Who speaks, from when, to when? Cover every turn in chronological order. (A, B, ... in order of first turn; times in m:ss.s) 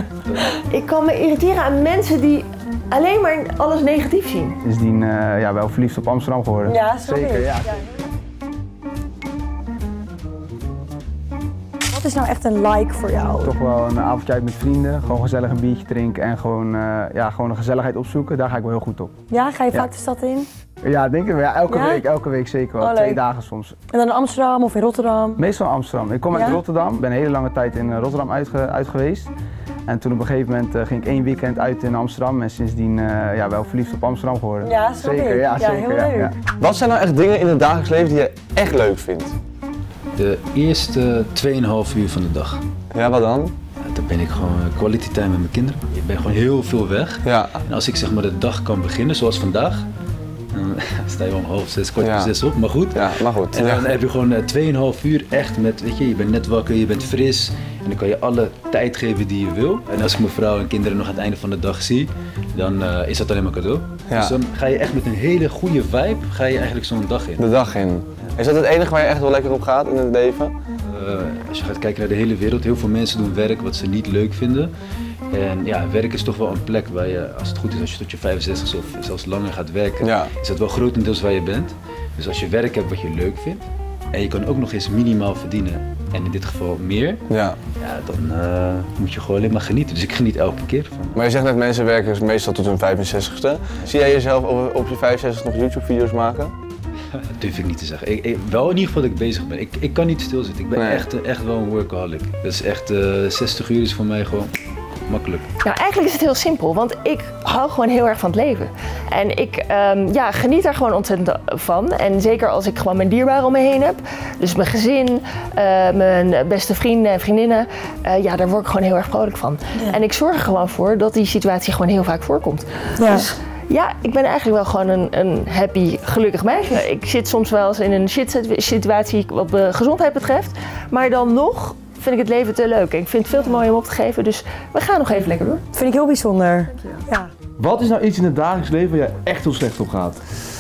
0:00.2-0:00.5 A
0:00.5-0:04.6 B
0:04.6-0:07.8 C
0:06.7-0:07.5 D
0:11.9-0:13.5 D
0:13.4-0:19.1 C
0:19.3-0:20.5 D
0:20.8-0:23.8 C
0:21.7-0:22.0 D
0:22.8-0:23.2 D
0:23.9-0:25.4 D
0:25.4-0:29.3 C
0:26.3-0:26.6 D
0:29.9-0:36.4 C
0:34.7-0:36.2 D
0:36.6-0:39.4 E
0:40.2-0:42.6 A
0:42.9-0:43.5 E
0:43.8-0:49.8 A
0:47.2-0:47.6 E
0:50.5-1:07.5 A
0:52.0-0:52.3 E
0:52.9-0:53.9 E
1:04.1-1:04.4 E
1:07.4-1:10.5 E
1:10.8-1:14.7 A
1:15.3-1:27.2 A
1:20.0-1:20.3 E
1:27.3-1:27.6 E
1:27.8-1:31.2 A
1:31.2-1:36.5 E
1:37.3-1:44.5 A
1:40.8-1:41.0 E
1:45.1-1:45.5 A
1:45.6-2:15.7 B
2:15.8-2:17.3 D
2:17.6-2:20.2 F